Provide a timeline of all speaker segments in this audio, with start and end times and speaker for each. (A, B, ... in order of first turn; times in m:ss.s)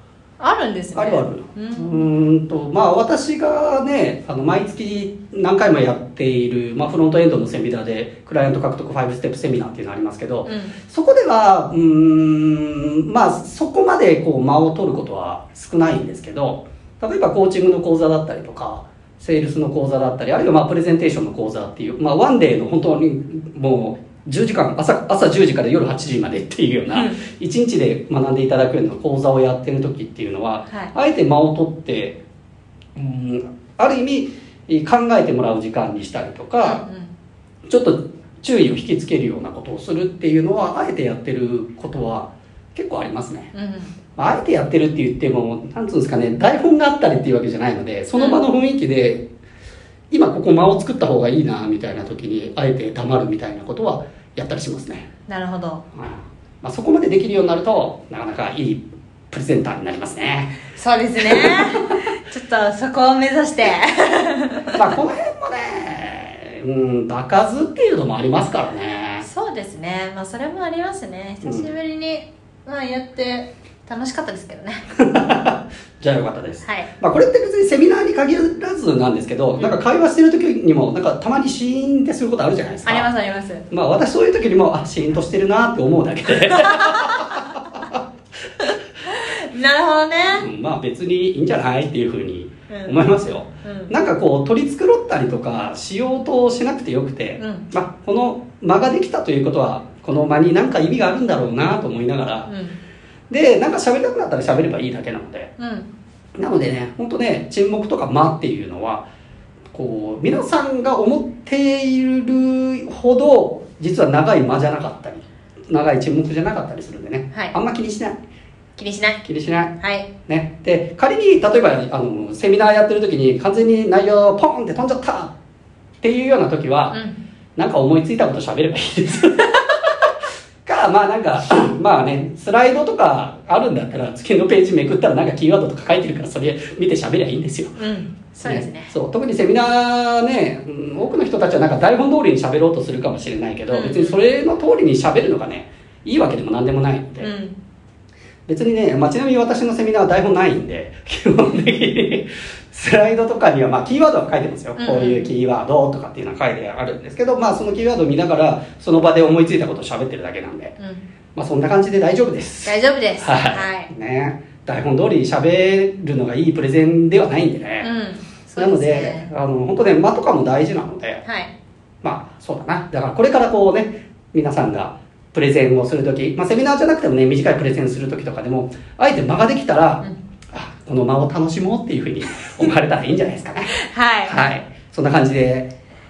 0:00.4-0:02.0 A
0:00.9-0:32.2 B
0:10.4-0:10.8 A
0:26.9-0:27.2 A
0:33.0-0:36.8 B
0:36.6-0:37.1 A
0:37.7-0:43.5 B
0:43.5-0:43.9 A
0:44.2-0:49.3 B
0:48.1-0:48.4 A
0:50.1-0:55.1 B
0:55.3-0:55.8 A
0:55.9-1:00.6 B
1:00.7-1:04.8 A
1:01.2-1:01.6 B
1:04.7-1:09.2 B
1:09.2-1:14.8 A
1:11.4-1:11.7 B
1:15.0-1:23.1 B
1:16.6-1:16.9 A
1:22.8-1:23.7 A
1:23.7-1:28.0 B
1:26.5-1:27.2 A
1:29.1-1:30.4 A
1:30.4-1:42.5 B
1:32.7-1:33.0 A
1:33.6-1:33.9 A
1:37.4-1:37.7 A
1:42.5-1:42.8 A
1:43.3-1:45.5 B
1:45.6-1:45.9 A
1:46.4-1:49.1 B
1:49.7-1:58.2 B
1:58.8-1:59.2 A
1:59.2-1:59.7 B
1:59.8-2:00.1 A
2:00.2-2:05.3 B
2:06.0-2:07.0 B
2:06.9-2:07.2 A
2:07.6-2:09.9 B
2:10.6-2:17.8 B
2:17.8-2:18.9 A
2:18.4-2:27.3 B
2:23.7-2:24.2 A
2:27.2-2:27.5 A
2:28.5-2:40.7 B
2:34.8-2:35.3 A
2:40.8-2:41.0 A
2:41.3-2:47.9 B
2:42.6-2:43.9 A
2:47.8-2:49.3 A
2:48.6-2:51.2 B
2:51.2-2:51.5 A
2:52.0-3:03.7 B
3:03.8-3:04.5 A
3:04.3-3:05.7 B